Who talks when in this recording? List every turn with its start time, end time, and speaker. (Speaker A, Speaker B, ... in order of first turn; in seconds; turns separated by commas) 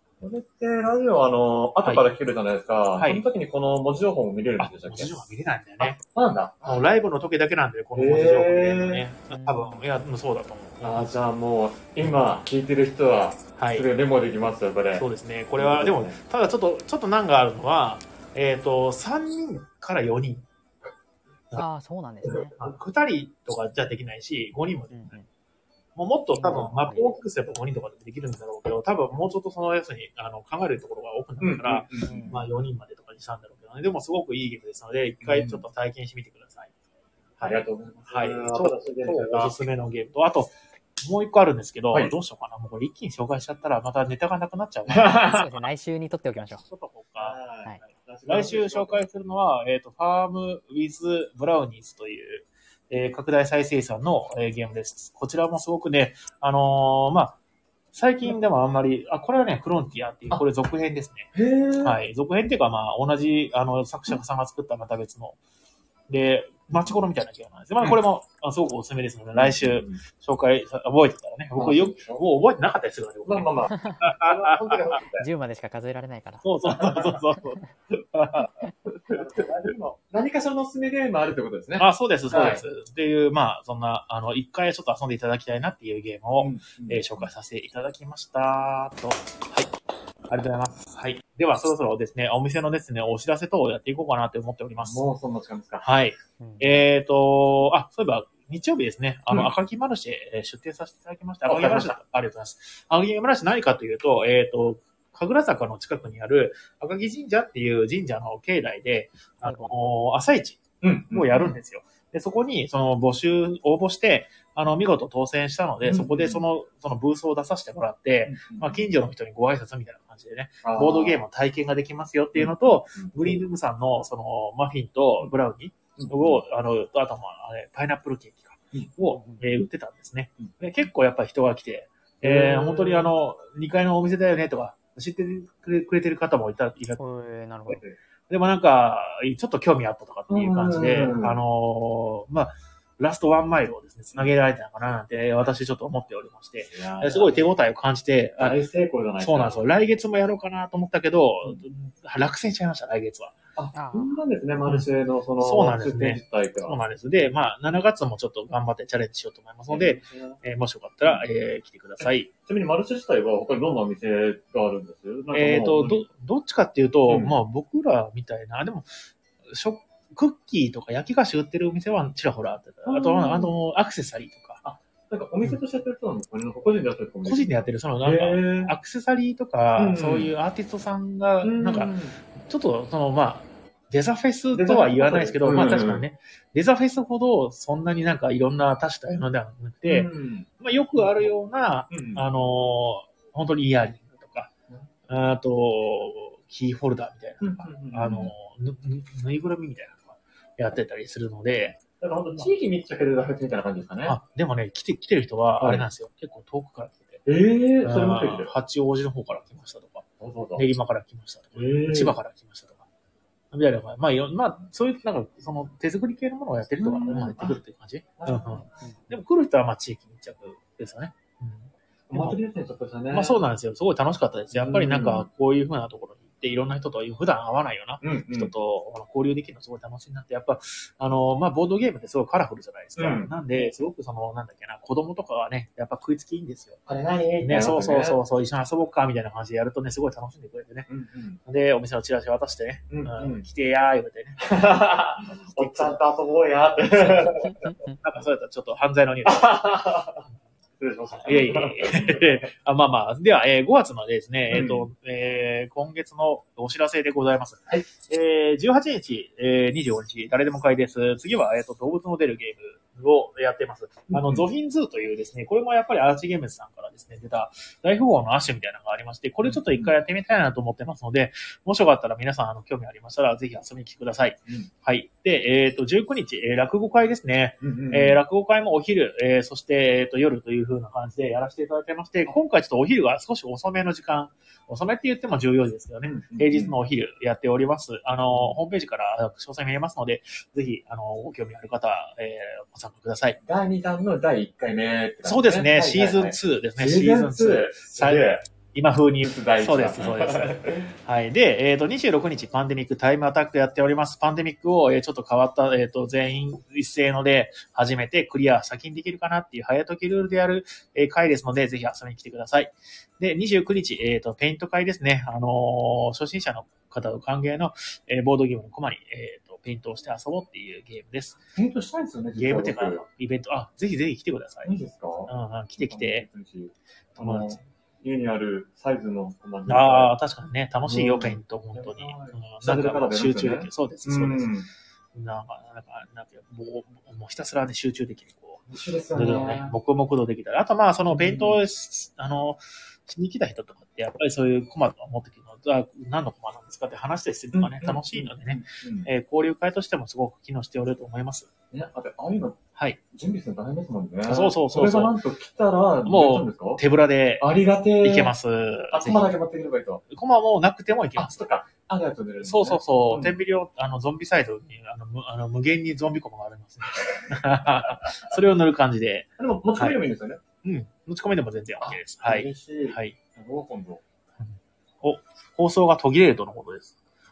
Speaker A: 0.2-5.1, Speaker B: 1.8-2.1, Speaker B: 3.0-3.2, Speaker B: 4.6-6.0, Speaker A: 5.8-6.8, Speaker B: 6.6-11.1, Speaker A: 8.0-9.0, Speaker C: 9.3-9.9, Speaker A: 10.8-16.2, Speaker B: 13.6-13.9, Speaker B: 14.9-20.4, Speaker C: 21.5-22.6, Speaker B: 22.5-25.1, Speaker C: 24.9-25.3, Speaker B: 25.9-36.7, Speaker C: 26.3-27.2, Speaker A: 31.4-32.3, Speaker C: 32.0-32.4, Speaker A: 35.2-35.6, Speaker B: 37.4-45.5, Speaker A: 37.4-39.6, Speaker A: 44.9-45.4, Speaker C: 45.1-46.6, Speaker B: 46.7-47.4, Speaker A: 47.2-49.0, Speaker B: 48.3-57.4, Speaker B: 57.9-65.4, Speaker A: 61.3-62.0, Speaker B: 66.1-75.0, Speaker A: 69.3-70.0, Speaker A: 71.5-72.2, Speaker A: 73.3-75.3, Speaker C: 73.7-74.1, Speaker C: 75.2-76.5, Speaker B: 76.4-77.6, Speaker C: 77.4-77.7, Speaker B: 78.1-78.6, Speaker A: 79.1-82.6, Speaker B: 81.8-89.7, Speaker A: 86.4-87.3, Speaker B: 90.3-95.0, Speaker A: 94.8-95.9, Speaker B: 95.8-137.0, Speaker C: 96.4-96.8, Speaker A: 101.5-102.0, Speaker C: 109.4-109.8, Speaker A: 110.8-111.6, Speaker A: 115.8-116.4, Speaker A: 118.3-118.9, Speaker A: 120.6-121.2, Speaker A: 122.4-123.4, Speaker A: 126.0-126.4, Speaker C: 129.1-129.5, Speaker A: 132.2-133.1, Speaker C: 137.0-137.8, Speaker B: 138.3-148.6, Speaker A: 140.3-141.4, Speaker A: 146.7-147.4, Speaker A: 148.4-149.7, Speaker B: 149.2-153.4, Speaker A: 153.6-156.8, Speaker C: 153.7-154.2, Speaker B: 155.4-162.3, Speaker A: 159.7-160.4, Speaker A: 162.0-166.1, Speaker B: 165.3-168.9, Speaker A: 167.1-167.3, Speaker B: 169.5-174.6, Speaker A: 172.8-173.5, Speaker A: 174.6-178.7, Speaker B: 177.2-190.1, Speaker A: 179.8-180.3, Speaker A: 181.4-182.2, Speaker A: 184.5-186.1, Speaker A: 189.9-191.3, Speaker B: 190.6-194.5, Speaker A: 191.9-192.2, Speaker B: 195.1-201.8, Speaker A: 197.4-198.3, Speaker A: 202.0-204.2, Speaker B: 204.1-207.2, Speaker A: 205.6-205.9, Speaker A: 207.2-208.5, Speaker B: 207.8-210.1, Speaker A: 210.2-210.7, Speaker B: 210.6-212.8, Speaker A: 211.6-212.1, Speaker B: 213.5-222.4, Speaker A: 216.8-217.6, Speaker A: 218.2-218.8, Speaker A: 222.1-223.4, Speaker B: 223.1-236.8, Speaker A: 224.5-225.3, Speaker A: 228.0-228.5, Speaker A: 233.0-233.3, Speaker A: 236.9-238.2, Speaker B: 237.4-240.9, Speaker A: 240.9-241.4, Speaker B: 241.4-244.5, Speaker A: 242.9-243.5, Speaker A: 244.4-247.6, Speaker B: 245.6-246.0, Speaker B: 246.9-249.7, Speaker C: 247.5-247.9, Speaker A: 249.2-250.3, Speaker A: 250.8-252.5, Speaker B: 251.1-293.4, Speaker A: 254.5-254.9, Speaker A: 264.1-264.4, Speaker A: 269.4-269.9, Speaker A: 277.6-278.2, Speaker A: 286.1-286.7, Speaker A: 288.3-288.6, Speaker A: 293.4-298.4, Speaker B: 295.2-321.4, Speaker A: 299.2-300.9, Speaker A: 321.6-323.0, Speaker B: 322.3-324.7, Speaker A: 324.6-330.1, Speaker B: 325.3-326.3, Speaker B: 327.2-327.6, Speaker B: 329.7-334.5, Speaker A: 330.9-334.7, Speaker B: 335.1-351.5, Speaker A: 338.7-339.7, Speaker A: 341.1-341.6, Speaker A: 347.5-349.1, Speaker A: 351.7-352.6, Speaker A: 353.1-356.8, Speaker B: 354.3-355.2, Speaker B: 356.1-357.5, Speaker A: 357.4-358.3, Speaker B: 358.0-359.2, Speaker A: 358.9-360.0, Speaker B: 360.1-361.4, Speaker A: 361.2-363.4, Speaker B: 362.4-370.0, Speaker A: 369.4-370.4, Speaker B: 370.6-373.2, Speaker A: 371.8-374.0, Speaker B: 374.4-376.9